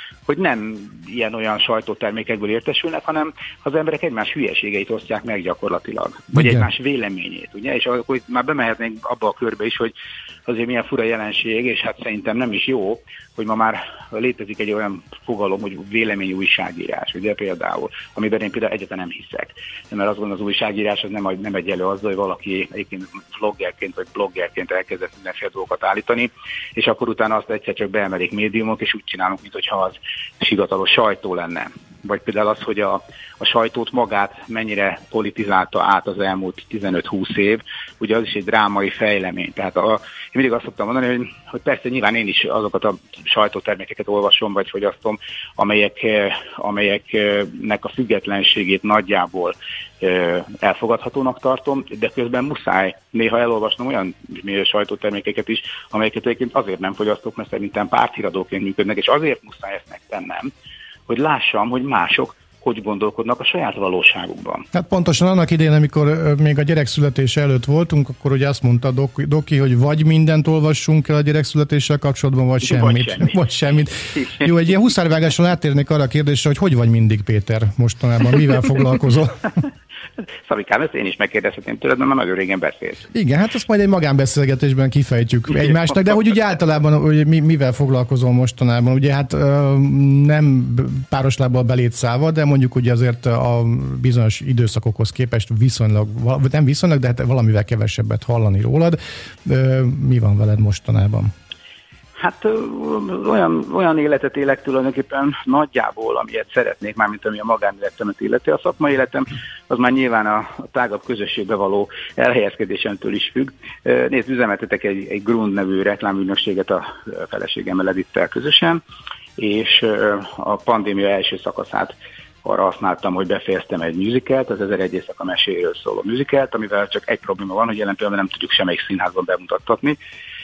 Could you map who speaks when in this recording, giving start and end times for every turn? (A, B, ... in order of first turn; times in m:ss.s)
0:00.2-0:09.9 A
0:06.3-0:06.7 B
0:10.5-1:00.5 A
1:01.1-1:04.7 A
1:04.7-1:19.5 B
1:12.6-1:13.4 A
1:14.1-1:14.6 A
1:20.4-1:23.1 A
1:23.1-1:41.3 B
1:42.2-1:58.8 A
1:59.4-2:10.0 A